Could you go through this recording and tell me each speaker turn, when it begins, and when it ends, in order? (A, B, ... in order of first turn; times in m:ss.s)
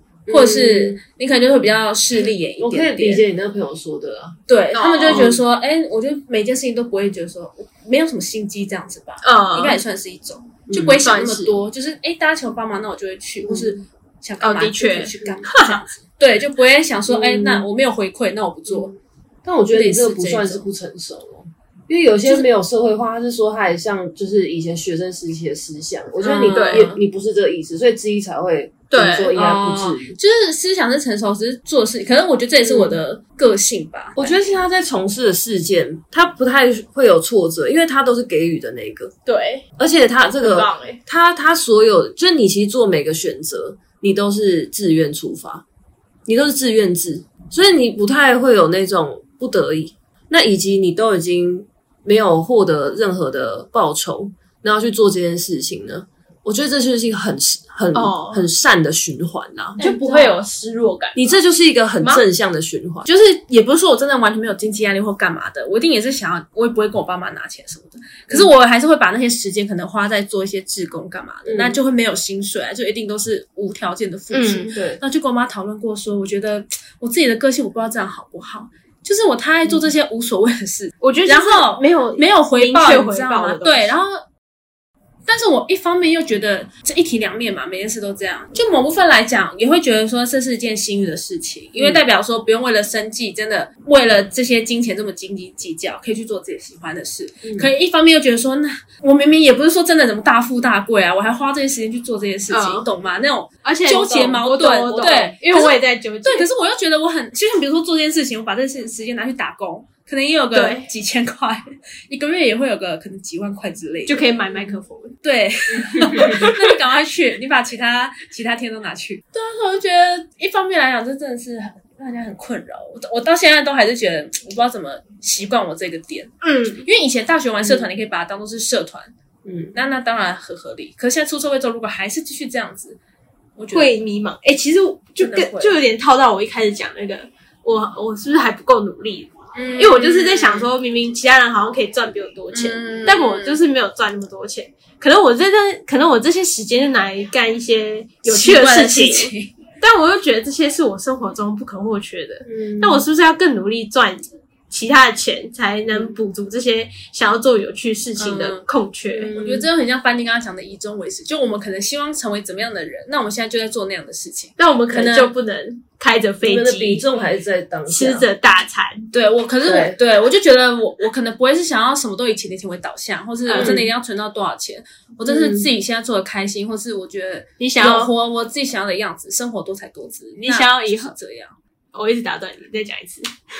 0:00.2-0:01.0 A
0:00.3-0:03.2 B
0:02.6-0:04.4 A
0:04.5-0:18.9 B
0:04.7-0:05.3 C
0:05.1-0:05.4 A
0:09.2-0:09.8 C
0:10.7-0:11.0 A
0:11.0-0:11.5 C
0:13.4-0:13.8 A
0:14.4-0:15.8 C
0:17.1-0:17.7 A
0:18.7-0:30.2 A
0:19.7-0:20.7 B
0:26.2-0:27.0 B
0:26.4-0:26.9 C
0:28.9-0:29.3 C
0:29.3-0:34.4 B
0:32.6-0:33.0 A
0:34.2-0:39.1 A
0:39.2-0:39.6 C
0:39.8-0:45.6 A
0:40.4-0:41.0 C
0:46.2-0:59.8 A
0:57.9-0:58.5 C
0:59.8-1:00.4 B
0:59.8-1:01.4 C
1:01.1-1:03.1 A
1:03.0-1:24.2 B
1:11.4-1:11.8 A
1:14.3-1:14.7 C
1:14.7-1:15.0 A
1:21.0-1:23.9 C
1:25.3-2:09.1 B
1:31.8-1:32.0 A
1:37.4-1:37.7 A
1:42.5-1:42.9 C
1:43.6-1:46.5 C
1:50.5-1:50.9 C
1:54.1-1:55.2 C
1:55.9-1:56.5 A
1:56.1-1:56.6 C
2:06.4-2:06.8 C
2:09.4-2:09.7 A
2:09.7-2:13.0 B
2:13.6-2:13.9 B
2:13.7-2:39.3 C
2:15.2-2:15.8 B
2:19.5-2:20.7 B
2:22.5-2:23.6 B
2:28.2-2:29.5 B
2:32.5-2:33.0 A
2:38.2-2:38.6 B
2:39.2-2:39.7 A
2:39.3-2:45.3 B
2:44.6-2:47.0 C
2:46.4-2:48.3 A
2:47.9-2:49.1 C
2:49.1-3:01.5 B
2:49.6-2:50.0 A
2:53.5-2:53.8 C
2:53.5-2:53.9 A
2:55.2-2:55.7 A
2:57.6-2:58.1 C
3:00.4-3:01.1 C
3:01.9-3:03.3 C